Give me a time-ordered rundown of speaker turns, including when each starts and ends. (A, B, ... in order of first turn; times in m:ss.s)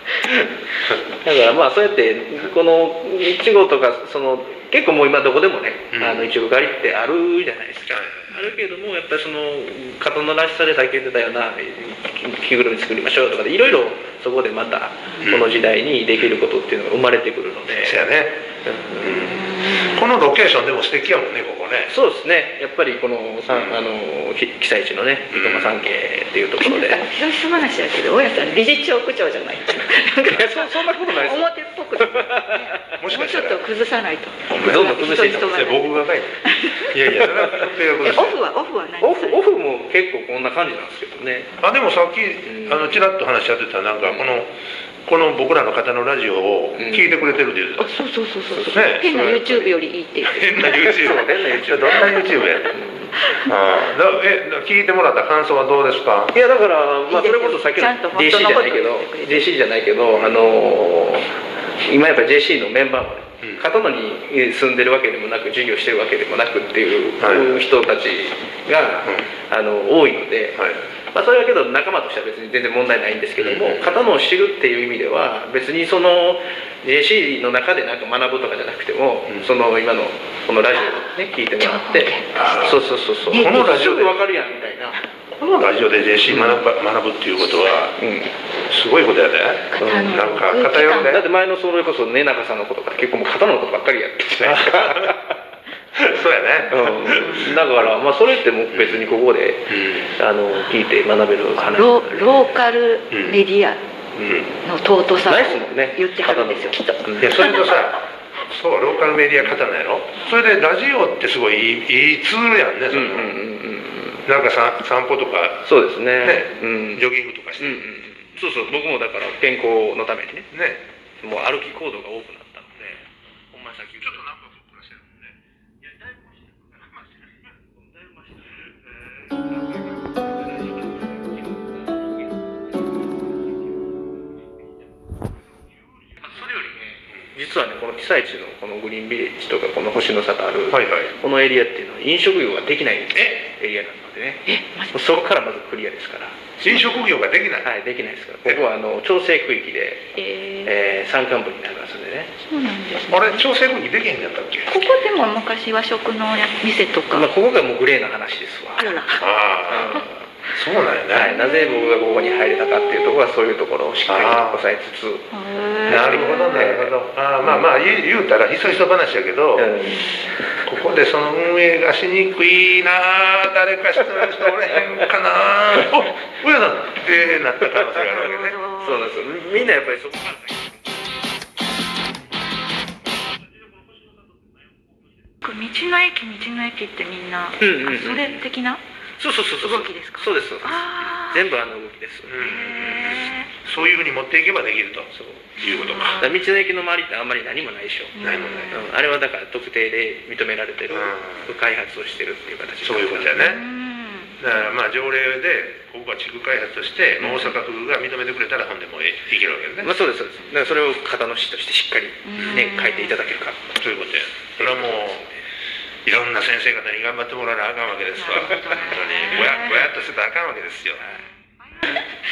0:00.2-0:00.5 A
0:01.2-0:18.0 B
0:05.9-0:06.3 A
0:07.9-0:08.5 A
0:15.2-0:15.6 A
0:17.8-0:18.4 A
0:18.6-0:19.3 B
0:19.0-0:21.9 A
0:19.2-0:20.1 C
0:21.9-0:27.0 B
0:23.5-0:23.9 A
0:25.3-0:25.8 A
0:26.6-0:36.9 C
0:30.2-0:33.0 B
0:33.0-0:33.7 A
0:34.5-0:34.8 A
0:34.5-0:35.6 B
0:35.4-0:38.4 A
0:38.0-0:39.4 C
0:39.0-0:41.5 B
0:41.6-0:47.9 A
0:42.4-0:43.0 B
0:44.1-0:44.4 B
0:46.8-0:47.1 B
0:47.8-0:51.0 C
0:48.5-0:49.8 B
0:48.7-0:49.7 A
0:50.2-0:52.8 A
0:50.6-0:53.1 B
0:53.2-0:53.5 C
0:53.4-0:56.4 A
0:56.3-1:10.6 B
0:57.1-0:59.5 C
1:00.1-1:00.5 A
1:07.2-1:07.6 A
1:10.6-1:10.8 A
1:11.1-1:25.0 B
1:13.4-1:13.9 A
1:21.6-1:22.7 C
1:22.3-1:24.2 A
1:23.3-1:23.5 C
1:25.3-1:28.0 A
1:26.3-1:26.6 B
1:28.0-1:28.4 B
1:28.7-1:31.2 A
1:29.7-1:31.2 C
1:29.8-1:30.2 B
1:31.0-1:35.3 B
1:34.4-1:35.2 A
1:35.9-1:37.9 A
1:36.7-1:42.5 B
1:38.7-1:39.0 A
1:39.7-1:40.1 A
1:41.6-1:43.8 C
1:43.1-1:43.4 A
1:44.2-1:44.5 A
1:44.6-1:47.8 C
1:45.2-1:47.5 B
1:47.2-1:53.4 A
1:49.4-1:49.6 B
1:52.9-1:54.2 B
1:54.2-1:55.7 A
1:55.6-1:57.0 B
1:56.2-1:57.8 A
1:57.6-2:00.5 B
2:00.5-2:00.8 A
2:01.2-2:04.2 B
2:04.0-2:05.1 A
2:16.3-2:16.8 B
2:17.3-2:26.5 B
2:20.7-2:21.1 A
2:23.1-2:23.4 A
2:24.4-2:25.1 C
2:26.6-2:27.7 A
2:27.6-2:32.3 B
2:30.2-2:30.7 C
2:32.5-2:33.4 C
2:33.1-2:34.7 A
2:34.7-2:37.3 C
2:37.1-2:39.0 B
2:38.8-2:39.2 C
2:39.2-2:41.4 A
2:39.7-2:40.1 B
2:41.1-2:45.3 B
2:41.4-2:42.5 C
2:44.1-2:44.7 A
2:45.3-2:46.7 C
2:45.9-2:46.9 B
2:45.9-2:49.7 A
2:49.6-2:50.6 B
2:49.9-2:50.3 C
2:50.6-2:58.6 A
2:58.0-2:59.1 C
2:58.8-3:00.8 B
3:05.4-3:08.8 C
3:07.6-3:08.4 B
3:09.2-3:13.2 B
3:09.6-3:11.4 C
3:12.3-3:16.2 A
3:12.4-3:13.5 C
3:15.1-3:15.4 B
3:15.6-3:16.4 C
3:16.2-3:18.2 B
3:18.2-3:18.9 C
3:18.2-3:18.8 A
3:18.7-3:23.4 B
3:20.9-3:21.4 A
3:22.8-3:23.6 A
3:23.4-3:24.6 C
3:24.4-3:29.9 A
3:27.2-3:27.6 B
3:29.8-3:33.8 B
3:32.2-3:33.2 C
3:33.8-3:35.2 A
3:34.6-3:35.4 B
3:36.0-3:41.0 A
3:38.2-3:39.9 C